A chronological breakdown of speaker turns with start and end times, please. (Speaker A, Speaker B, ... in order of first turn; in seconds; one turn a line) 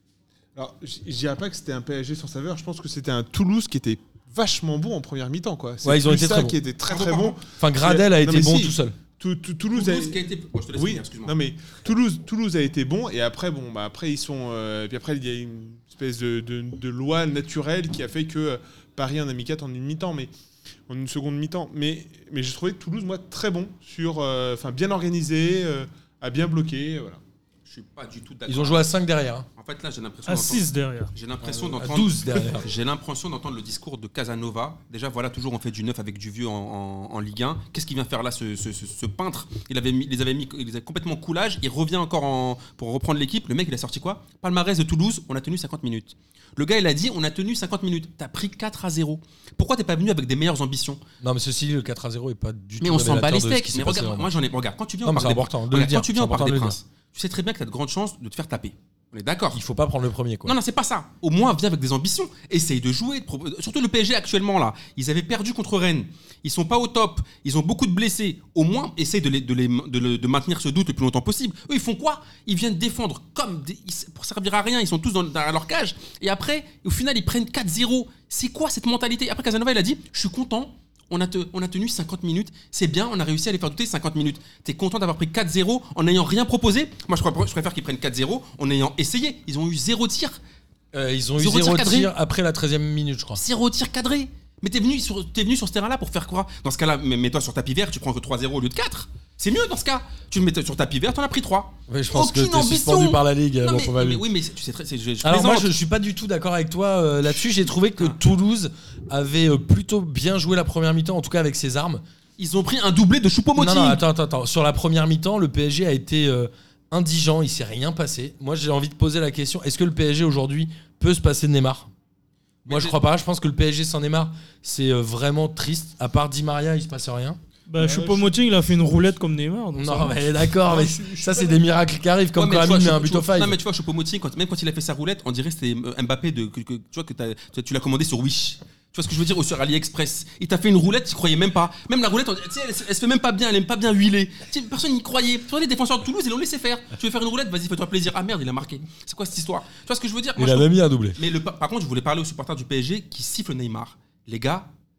Speaker A: 0.5-10.2
Speaker B: 5.8-6.6
Speaker C: 6.8-7.4
Speaker B: 7.6-8.9
Speaker C: 9.7-11.3
Speaker A: 10.7-20.3
Speaker A: 20.9-27.2
Speaker C: 27.6-28.9
Speaker B: 28.5-29.5
Speaker C: 29.6-51.0
Speaker D: 30.3-31.1
Speaker B: 31.4-32.6
Speaker B: 51.2-54.3
Speaker C: 52.8-59.6
Speaker B: 55.0-56.8
Speaker B: 59.5-60.5
Speaker C: 60.4-90.4
Speaker B: 90.9-93.4
Speaker C: 91.4-92.1
Speaker C: 93.3-105.7
Speaker B: 101.9-104.2
Speaker B: 105.2-112.0
Speaker C: 107.7-108.2
Speaker C: 112.4-114.0
Speaker B: 113.5-121.9
Speaker C: 122.6-123.0
Speaker B: 122.7-127.4
Speaker D: 127.7-130.3
Speaker A: 127.8-129.2
Speaker B: 129.8-133.6
Speaker A: 130.6-131.6
Speaker C: 132.3-154.7
Speaker B: 150.3-151.2